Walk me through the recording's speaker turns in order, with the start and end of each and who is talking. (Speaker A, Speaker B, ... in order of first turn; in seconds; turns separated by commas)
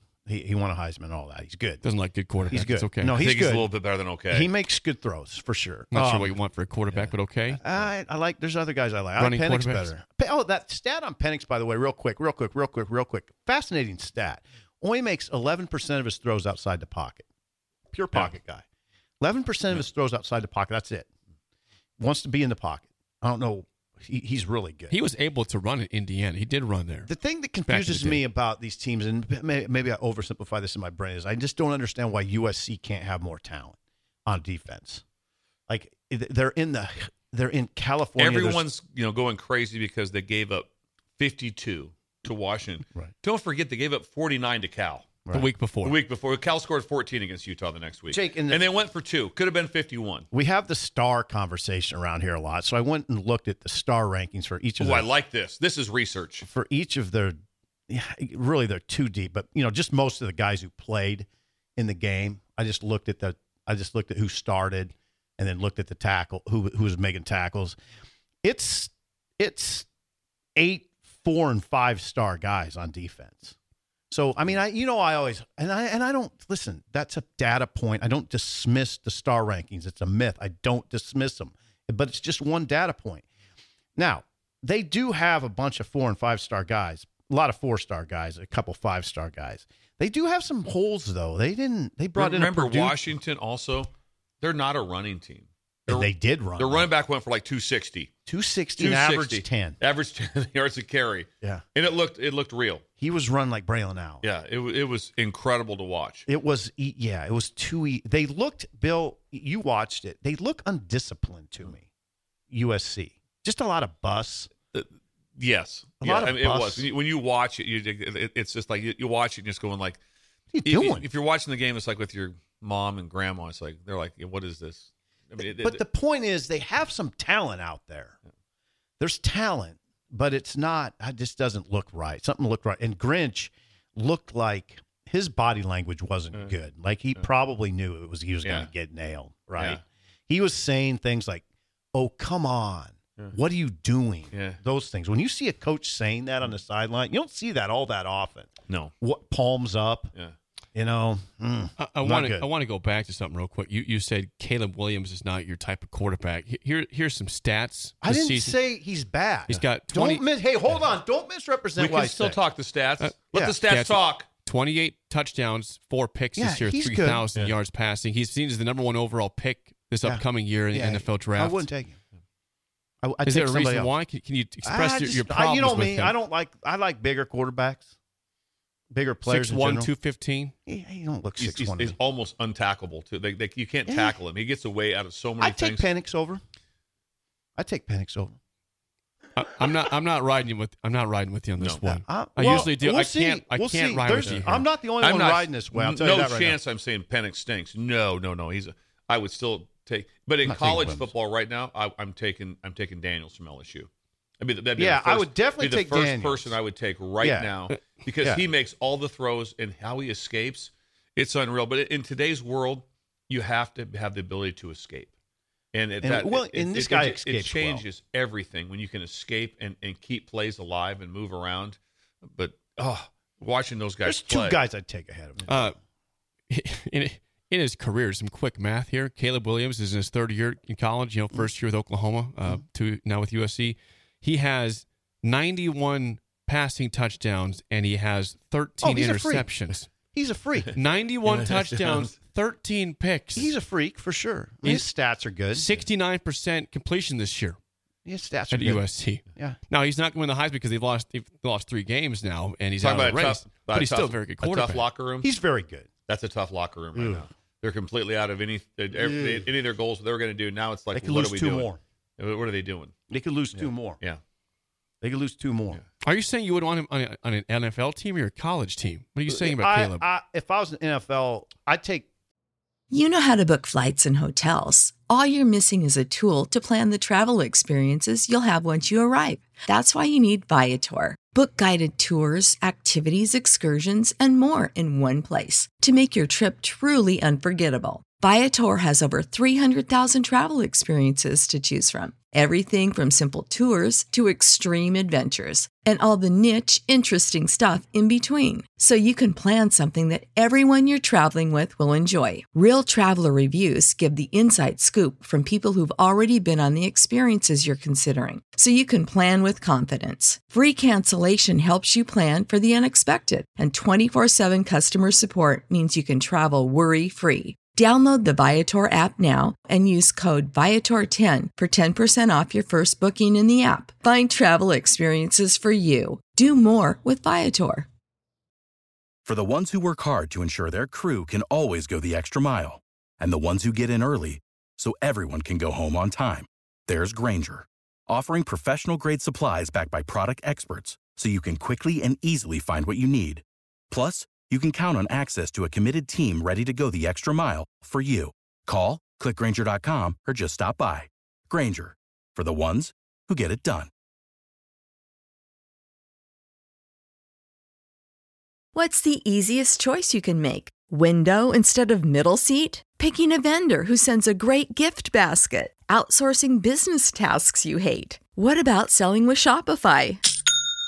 Speaker A: 0.3-1.8, Speaker B: 1.8-3.2, Speaker A: 2.5-3.7, Speaker C: 3.2-4.5, Speaker A: 4.3-6.4, Speaker B: 5.9-7.6, Speaker A: 7.6-17.3, Speaker B: 9.2-9.9, Speaker A: 17.9-18.6, Speaker A: 19.2-21.1, Speaker A: 22.0-24.9, Speaker B: 24.9-27.1, Speaker A: 27.1-35.0, Speaker B: 27.7-28.2, Speaker A: 35.7-38.6, Speaker C: 38.2-45.2, Speaker A: 45.3-45.5, Speaker B: 45.3-46.0, Speaker C: 45.8-50.3, Speaker A: 48.1-48.6, Speaker A: 50.3-55.1, Speaker C: 54.8-56.5, Speaker A: 56.4-57.4, Speaker A: 57.9-67.8, Speaker A: 68.4-69.9, Speaker A: 70.6-73.6, Speaker A: 74.1-83.2, Speaker A: 84.0-93.0, Speaker C: 92.2-93.9, Speaker C: 94.4-98.1, Speaker A: 95.9-96.9, Speaker A: 98.3-99.8, Speaker C: 98.8-102.8, Speaker A: 103.0-104.2, Speaker C: 104.2-106.3, Speaker A: 106.3-111.9, Speaker A: 112.5-114.5, Speaker C: 114.7-120.0, Speaker A: 116.0-116.9, Speaker A: 120.5-121.1, Speaker C: 120.7-125.8, Speaker A: 125.4-128.2, Speaker A: 129.0-150.1, Speaker C: 138.4-138.7, Speaker C: 144.3-144.6, Speaker A: 150.8-152.5, Speaker B: 151.8-158.5, Speaker A: 158.0-162.4, Speaker B: 159.5-160.2, Speaker C: 161.8-164.3, Speaker B: 163.0-171.6, Speaker A: 166.4-167.3, Speaker A: 170.0-172.0, Speaker A: 173.0-173.9, Speaker B: 173.2-176.2, Speaker A: 174.6-177.9, Speaker A: 178.9-179.9, Speaker B: 179.3-180.5, Speaker A: 180.7-182.0, Speaker C: 181.4-185.9, Speaker A: 183.9-184.2, Speaker A: 185.4-186.4, Speaker A: 187.6-188.4, Speaker B: 189.4-194.6, Speaker C: 191.6-191.8, Speaker A: 191.8-196.6, Speaker C: 194.2-194.4, Speaker C: 195.0-203.9, Speaker A: 200.4-201.1, Speaker C: 204.4-215.1, Speaker A: 204.8-206.6, Speaker A: 207.2-207.5, Speaker C: 215.7-224.6, Speaker A: 216.0-217.8, Speaker A: 224.1-225.7, Speaker B: 225.5-225.8, Speaker B: 226.5-239.9, Speaker A: 238.8-239.5, Speaker A: 240.1-240.8, Speaker B: 240.8-243.5, Speaker C: 241.3-242.1, Speaker A: 243.3-245.7, Speaker B: 245.5-247.6, Speaker A: 248.1-249.6, Speaker B: 248.5-254.8, Speaker C: 252.8-255.3, Speaker A: 255.2-255.9, Speaker C: 256.1-262.9, Speaker A: 256.9-257.3, Speaker A: 258.9-259.5, Speaker A: 260.9-261.8, Speaker A: 263.1-264.0, Speaker C: 263.5-264.2, Speaker A: 265.0-265.8, Speaker B: 266.0-270.1, Speaker A: 269.3-272.1, Speaker D: 272.9-327.9, Speaker E: 329.2-353.9, Speaker D: 358.8-370.2